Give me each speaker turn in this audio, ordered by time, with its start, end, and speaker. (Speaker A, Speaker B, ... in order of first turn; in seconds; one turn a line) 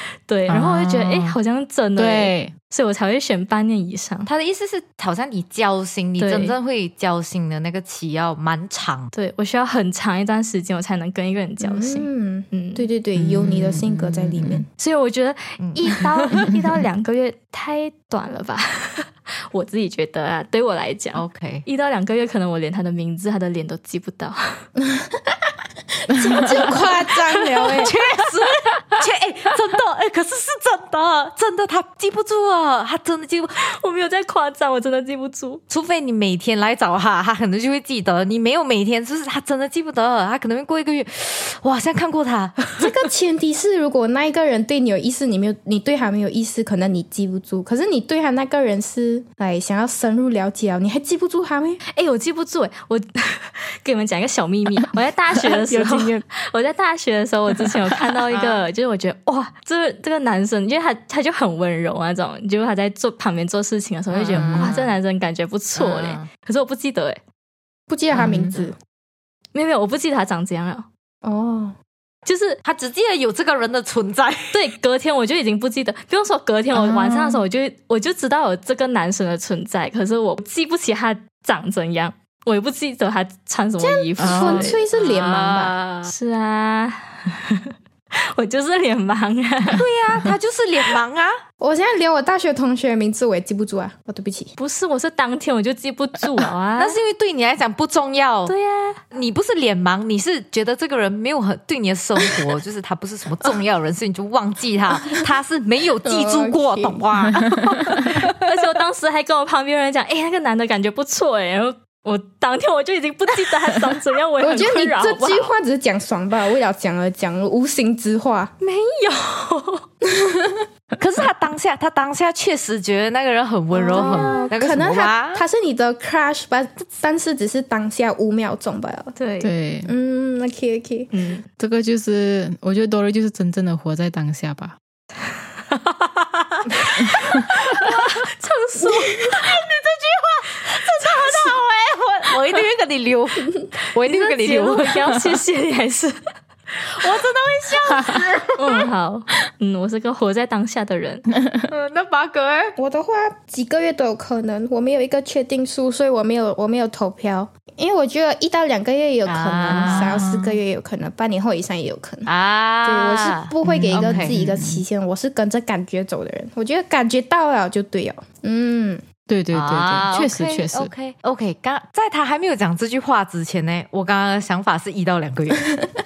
Speaker A: 0.3-4.3
Speaker B: 0.5-1.4
Speaker B: 2.0-2.5
Speaker C: 4.3-9.1
Speaker A: 6.2-6.5
Speaker A: 9.1-12.9
Speaker D: 11.6-14.7
Speaker B: 13.2-14.7
Speaker A: 14.8-24.6
Speaker C: 15.6-16.0
Speaker C: 21.1-21.7
Speaker D: 24.8-25.4
Speaker D: 25.9-27.9
Speaker B: 26.1-26.6
Speaker C: 27.8-33.6
Speaker A: 33.7-35.6
Speaker C: 35.7-42.7
Speaker D: 42.8-51.8
Speaker A: 51.9-67.2
Speaker B: 55.4-56.2
Speaker C: 58.3-58.6
Speaker C: 64.1-64.9
Speaker B: 64.3-64.7
Speaker C: 65.8-66.3
Speaker D: 67.9-68.8
Speaker B: 68.1-68.7
Speaker A: 69.5-70.9
Speaker D: 71.2-71.8
Speaker A: 72.3-72.6
Speaker C: 72.6-74.6
Speaker A: 74.5-84.8
Speaker B: 76.7-77.4
Speaker D: 83.8-85.8
Speaker B: 84.2-84.7
Speaker C: 84.9-86.1
Speaker A: 86.1-87.7
Speaker A: 88.4-89.8
Speaker C: 89.8-91.3
Speaker D: 91.6-94.5
Speaker A: 94.6-97.0
Speaker C: 96.8-98.5
Speaker A: 98.5-99.0
Speaker C: 99.1-108.4
Speaker D: 106.0-107.0
Speaker A: 108.4-115.5
Speaker D: 114.4-118.5
Speaker A: 118.6-119.8
Speaker D: 120.1-120.7
Speaker C: 121.0-125.5
Speaker D: 123.7-129.2
Speaker A: 123.9-124.5
Speaker A: 129.2-129.5
Speaker B: 129.4-129.9
Speaker D: 129.9-131.1
Speaker A: 131.1-131.5
Speaker B: 131.6-134.8
Speaker A: 137.0-139.3
Speaker D: 138.9-139.4
Speaker C: 139.3-145.2
Speaker A: 140.8-141.5
Speaker A: 144.0-146.2
Speaker C: 146.9-148.9
Speaker A: 148.6-151.3
Speaker B: 151.4-151.7
Speaker C: 151.7-152.8
Speaker D: 152.8-162.3
Speaker C: 159.3-160.2
Speaker B: 159.7-160.6
Speaker C: 162.3-164.3
Speaker D: 162.8-169.0
Speaker B: 163.7-164.8
Speaker B: 169.3-170.9
Speaker C: 169.5-175.8